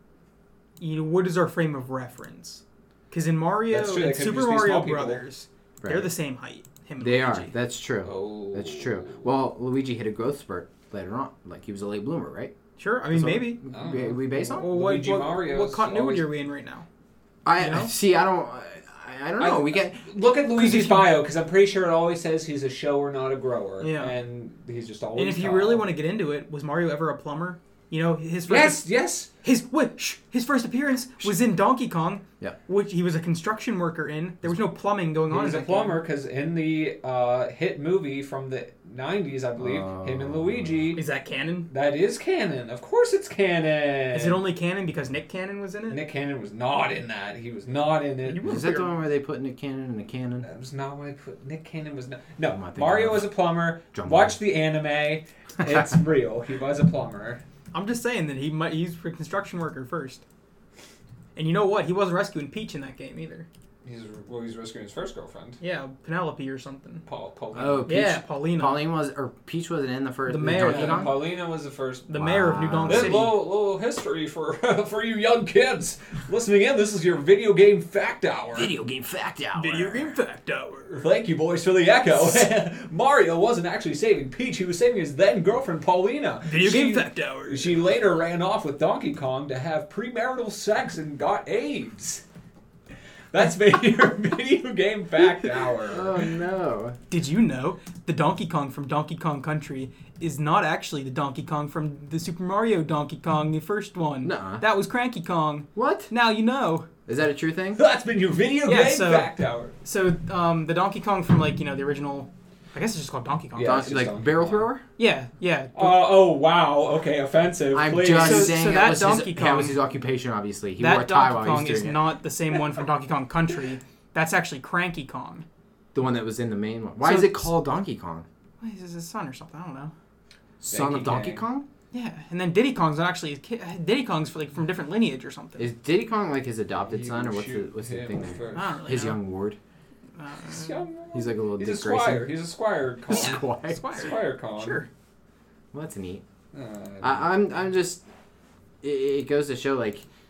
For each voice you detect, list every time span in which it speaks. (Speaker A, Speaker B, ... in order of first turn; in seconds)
Speaker A: 0.8-7.5, 12.8-13.6, 14.3-16.9, 17.6-17.9, 20.6-21.1, 23.8-24.1, 25.2-28.9, 29.4-36.0, 41.0-41.7, 44.1-46.0, 48.3-49.0, 57.7-60.2, 61.4-63.5, 65.6-67.0, 67.9-68.8, 70.3-71.1, 72.1-73.4, 79.5-81.0, 86.5-87.8, 97.1-106.9, 108.7-109.3, 109.8-113.9, 115.0-116.0, 118.2-119.8, 120.8-125.5, 127.0-127.5, 128.6-129.9, 131.9-135.7, 138.5-139.2, 140.2-140.8, 143.1-144.9
Speaker B: 3.7-5.2, 8.1-9.3, 13.7-16.3, 19.4-25.9, 28.5-29.3, 35.3-41.0, 41.7-44.4, 45.9-48.5, 50.4-57.4, 63.8-65.6, 67.1-67.9, 70.6-72.1, 72.9-78.7, 80.9-92.2, 93.3-96.2, 107.8-109.7, 113.5-114.7, 115.8-118.6, 130.7-131.4, 136.9-138.9, 140.4-144.9, 146.5-147.4
Speaker C: 5.8-6.1, 7.0-12.5, 13.1-14.7, 17.4-20.0, 39.6-40.9, 48.4-50.5, 52.5-53.3, 53.9-54.4, 67.5-71.2, 72.1-73.3, 78.5-80.2, 95.9-97.0, 104.2-104.7, 105.8-106.1, 107.1-107.8, 113.6-114.8, 117.7-122.0, 125.9-128.3, 130.6-131.7, 135.6-139.6, 141.1-142.3, 143.1-143.8, 145.7-146.2, 147.0-148.0, 148.8-150.1